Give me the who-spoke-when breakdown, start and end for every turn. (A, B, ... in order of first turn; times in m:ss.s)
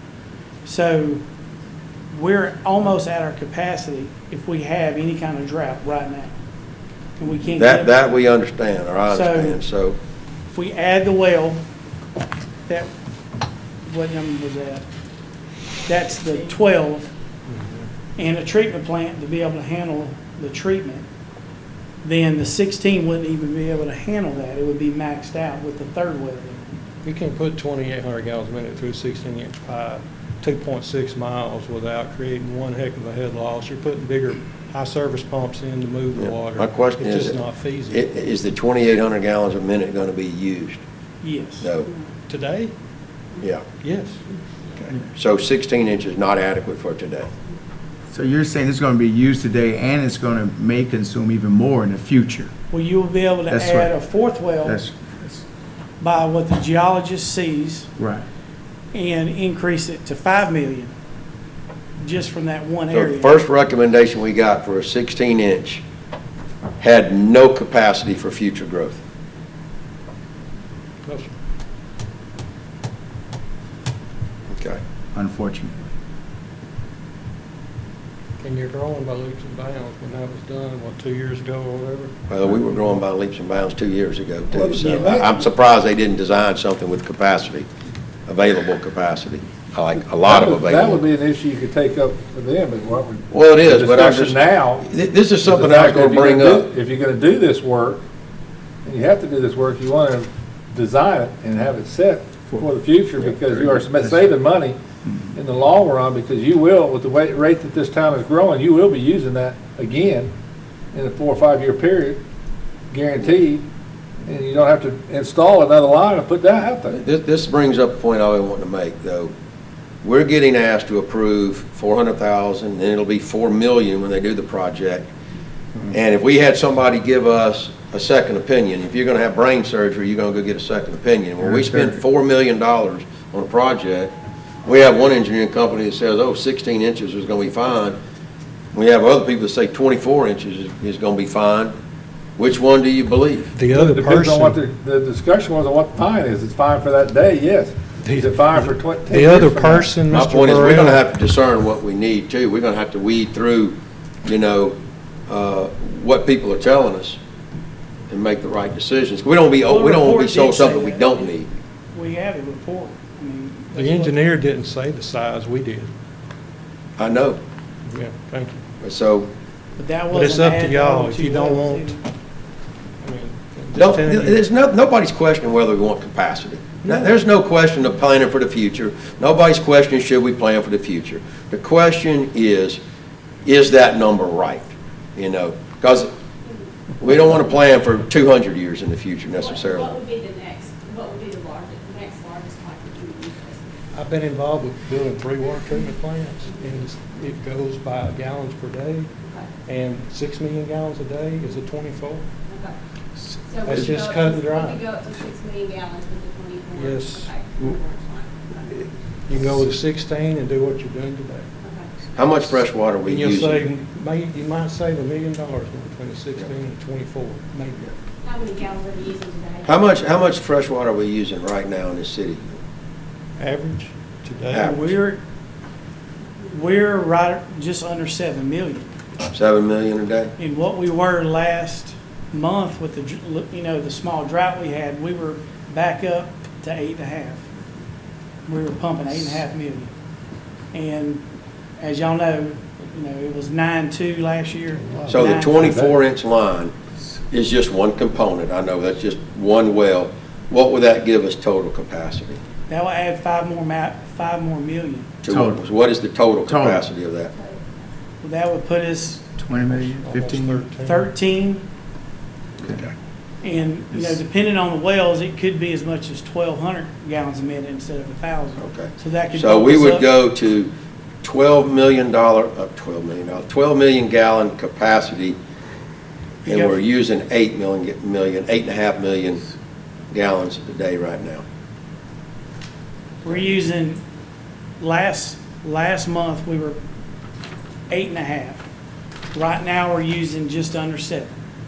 0:00.6-0:01.2 A
0:02.1-0:06.3 A
0:07.2-0:08.0 A
0:07.6-0:10.0 B
0:09.1-0:09.6 A
0:10.5-0:11.6 A
0:13.9-0:14.8 A
0:15.8-0:17.1 A
0:17.5-0:17.9 C
0:18.2-0:21.1 A
0:22.0-0:26.7 A
0:27.0-0:38.1 C
0:36.2-0:37.4 B
0:37.9-0:40.8 B
0:41.2-0:42.0 A
0:41.6-0:41.9 B
0:42.3-0:42.7 C
0:43.8-0:44.2 C
0:45.2-0:47.3 B
0:48.1-0:52.5 D
0:52.7-0:54.8 A
0:53.5-0:53.9 D
0:54.6-0:55.4 D
0:56.0-0:57.9 A
0:58.0-0:58.2 D
0:58.9-1:00.9 A
1:02.0-1:03.4 A
1:02.9-1:05.8 B
1:06.8-1:09.0 B
1:11.0-1:11.3 C
1:14.5-1:14.8 B
1:15.1-1:15.9 D
1:18.4-1:22.1 C
1:22.3-1:27.7 B
1:24.5-1:25.3 E
1:24.9-1:25.2 A
1:28.3-1:31.0 B
1:30.2-1:34.9 E
1:33.3-1:36.6 B
1:35.4-1:38.0 E
1:38.8-1:44.8 E
1:45.3-1:50.3 E
1:50.9-1:52.2 E
1:52.9-1:53.6 E
1:54.2-1:57.0 E
1:56.9-1:59.3 B
2:00.0-2:05.1 B
2:05.9-2:14.1 B
2:11.5-2:12.0 D
2:14.6-2:18.0 B
2:18.7-2:21.7 B
2:22.4-2:23.5 B
2:23.5-2:24.6 C
2:23.7-2:30.0 E
2:28.0-2:31.0 C
2:30.1-2:34.8 B
2:35.3-2:37.2 B
2:38.1-2:41.5 B
2:39.6-2:41.4 A
2:41.9-2:44.2 A
2:43.8-2:45.9 C
2:47.0-2:47.4 B
2:47.9-2:48.6 C
2:48.8-2:49.3 B
2:49.8-2:52.0 A
2:50.1-2:51.9 C
2:53.0-2:54.4 C
2:53.8-3:02.8 B
2:56.8-2:57.2 C
3:03.4-3:06.1 B
3:07.0-3:10.0 B
3:09.4-3:13.7 F
3:13.9-3:19.1 C
3:19.2-3:19.5 F
3:19.7-3:22.3 C
3:22.5-3:22.8 F
3:23.5-3:28.9 F
3:23.6-3:24.9 C
3:26.8-3:27.3 C
3:29.3-3:31.5 C
3:31.6-3:31.9 F
3:32.2-3:33.6 B
3:33.0-3:37.9 C
3:38.2-3:40.0 F
3:39.6-3:42.6 B
3:43.4-3:44.8 C
3:44.5-3:44.9 B
3:44.6-3:45.2 A
3:46.5-3:48.9 A
3:49.3-3:50.3 B
3:50.4-3:57.4 A
3:58.5-3:59.9 A
4:00.7-4:01.2 A
4:01.8-4:05.8 A
4:04.8-4:05.9 E
4:05.1-4:06.7 B
4:07.3-4:12.4 B
4:12.7-4:15.1 A
4:15.2-4:17.3 B
4:15.3-4:15.6 D
4:16.5-4:16.8 D
4:17.3-4:17.9 F
4:18.2-4:19.3 A
4:19.4-4:20.7 D
4:20.0-4:21.1 C
4:20.8-4:21.6 A
4:22.7-4:22.9 B
4:23.4-4:30.1 A
4:28.6-4:30.7 B
4:31.2-4:35.4 B
4:36.4-4:36.8 A
4:36.5-4:39.4 B
4:40.1-4:41.4 B
4:43.2-4:44.0 A
4:44.8-4:46.8 A
4:47.9-4:48.6 A
4:49.3-4:51.3 A